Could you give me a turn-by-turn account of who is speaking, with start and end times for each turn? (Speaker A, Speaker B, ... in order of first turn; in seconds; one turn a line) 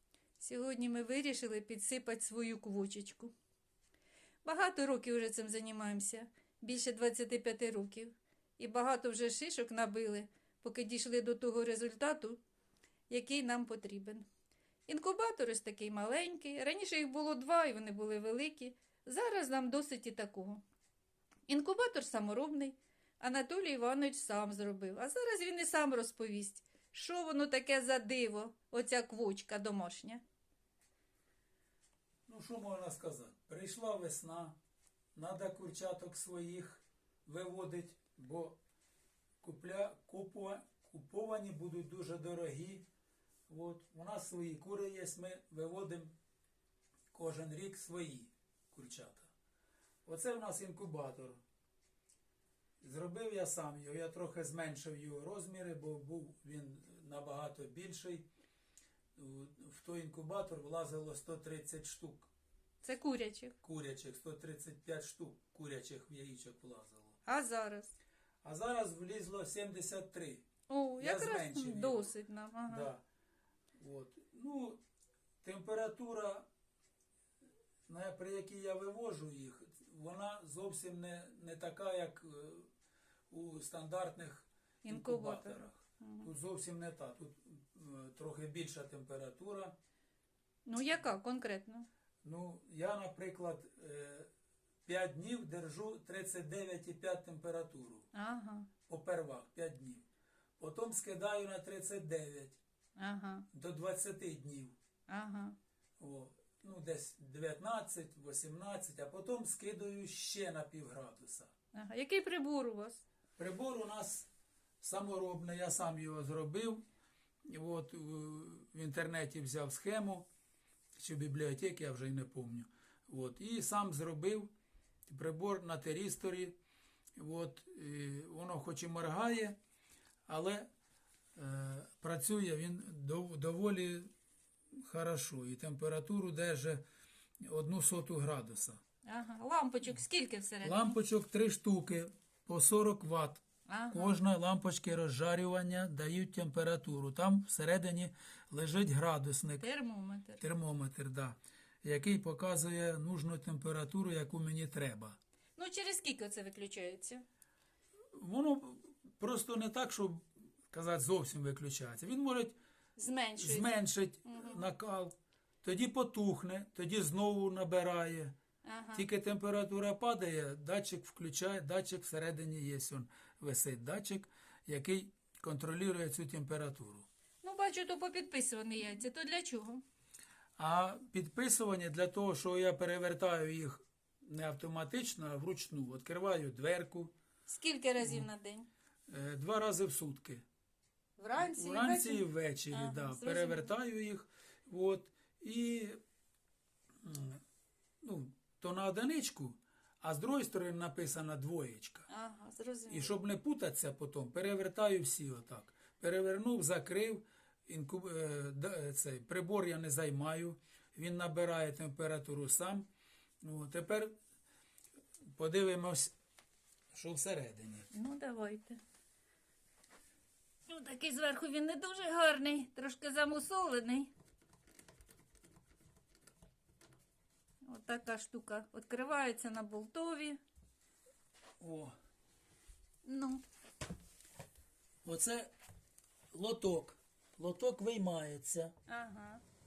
Speaker A: 0.4-3.3
Speaker A: 4.4-12.4
Speaker A: 13.1-14.2
Speaker A: 14.9-20.6
Speaker A: 21.5-30.2
Speaker B: 32.3-34.6
Speaker B: 35.1-38.6
Speaker B: 39.4-42.9
Speaker B: 43.5-46.1
Speaker B: 47.1-49.3
Speaker B: 50.0-51.4
Speaker B: 52.8-58.3
Speaker B: 59.2-62.3
Speaker A: 62.8-63.5
Speaker B: 63.6-67.2
Speaker A: 67.3-67.9
Speaker B: 68.4-70.5
Speaker A: 70.7-72.9
Speaker B: 71.0-72.1
Speaker B: 72.7-73.0
Speaker B: 73.8-74.8
Speaker B: 75.4-76.5
Speaker B: 77.9-82.7
Speaker B: 83.3-89.8
Speaker A: 84.8-86.3
Speaker A: 90.7-91.9
Speaker B: 92.2-94.3
Speaker B: 94.8-98.1
Speaker A: 98.1-98.7
Speaker B: 98.9-100.0
Speaker B: 100.6-102.6
Speaker A: 103.0-103.5
Speaker B: 103.5-104.7
Speaker A: 105.1-105.6
Speaker B: 106.0-111.5
Speaker A: 111.7-113.0
Speaker B: 113.4-114.3
Speaker B: 114.8-116.8
Speaker B: 117.5-120.3
Speaker B: 121.0-124.5
Speaker B: 125.1-126.6
Speaker B: 127.2-129.6
Speaker B: 130.3-130.7
Speaker B: 131.4-134.1
Speaker B: 134.7-136.8
Speaker B: 137.4-138.8
Speaker A: 139.1-140.9
Speaker B: 140.6-149.7
Speaker A: 143.7-144.2
Speaker A: 149.6-150.4
Speaker B: 150.4-155.2
Speaker A: 155.6-157.2
Speaker B: 158.1-162.6
Speaker A: 163.0-164.6
Speaker B: 163.4-168.3
Speaker A: 168.6-169.1
Speaker B: 168.9-177.1
Speaker A: 177.4-179.8
Speaker B: 180.6-187.1
Speaker A: 187.5-188.7
Speaker B: 188.0-188.3
Speaker B: 189.1-190.4
Speaker A: 191.2-193.7
Speaker B: 191.4-196.0
Speaker B: 197.0-197.4
Speaker B: 198.0-202.1
Speaker A: 202.1-203.2
Speaker B: 202.9-212.9
Speaker B: 213.4-214.1
Speaker B: 215.3-216.1
Speaker B: 216.9-217.9
Speaker A: 217.9-218.8
Speaker A: 220.7-224.1
Speaker A: 227.6-230.4
Speaker B: 231.6-231.9
Speaker A: 233.1-233.4
Speaker B: 235.0-235.5
Speaker B: 236.3-238.7
Speaker A: 238.9-239.4